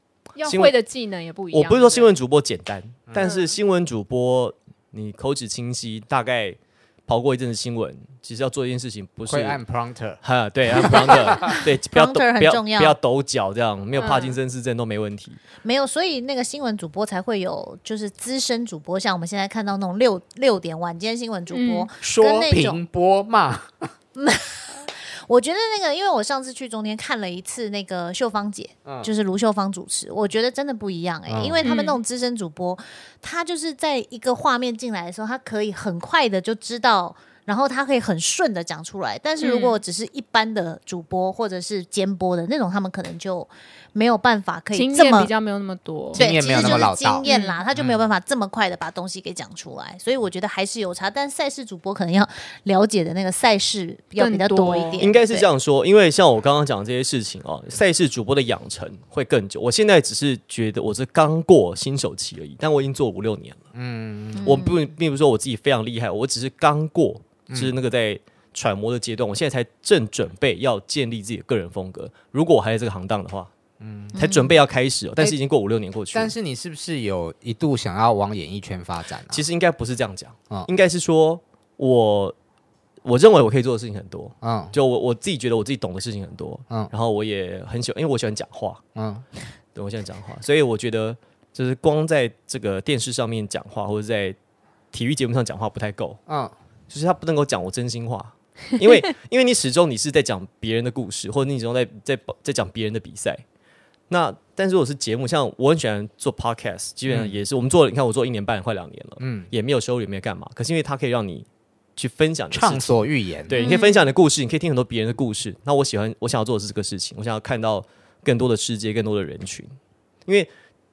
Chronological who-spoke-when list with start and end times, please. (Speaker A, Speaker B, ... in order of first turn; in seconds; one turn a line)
Speaker A: 0.3-2.1
Speaker B: 0.5-0.8
Speaker B: 1.5-9.6
Speaker C: 3.1-3.4
Speaker A: 3.2-3.5
Speaker C: 9.3-10.2
Speaker B: 10.2-15.4
Speaker C: 10.7-11.3
Speaker D: 11.3-13.0
Speaker A: 14.0-14.4
Speaker D: 15.6-22.8
Speaker A: 21.5-21.9
Speaker C: 22.0-23.9
Speaker D: 24.1-45.3
Speaker C: 28.9-29.1
Speaker C: 31.3-31.7
Speaker A: 31.6-32.0
Speaker A: 39.4-39.8
Speaker A: 44.7-47.6
Speaker C: 46.1-48.0
Speaker D: 46.2-55.5
Speaker A: 54.2-55.0
Speaker B: 55.0-63.6
Speaker C: 63.7-64.6
Speaker D: 64.4-64.8
Speaker B: 64.4-73.5
Speaker C: 73.8-74.2
Speaker B: 74.1-76.3
Speaker D: 74.2-74.5
Speaker C: 76.1-79.4
Speaker B: 79.3-82.3
Speaker B: 83.0-88.8
Speaker C: 84.4-84.7
Speaker C: 89.0-89.2
Speaker B: 89.8-94.4
Speaker B: 94.9-96.2
Speaker C: 96.3-96.5
Speaker B: 96.9-103.4
Speaker B: 104.1-119.8
Speaker C: 107.1-107.3
Speaker C: 109.2-109.5
Speaker C: 112.5-113.6
Speaker D: 113.5-114.0
Speaker B: 120.3-120.5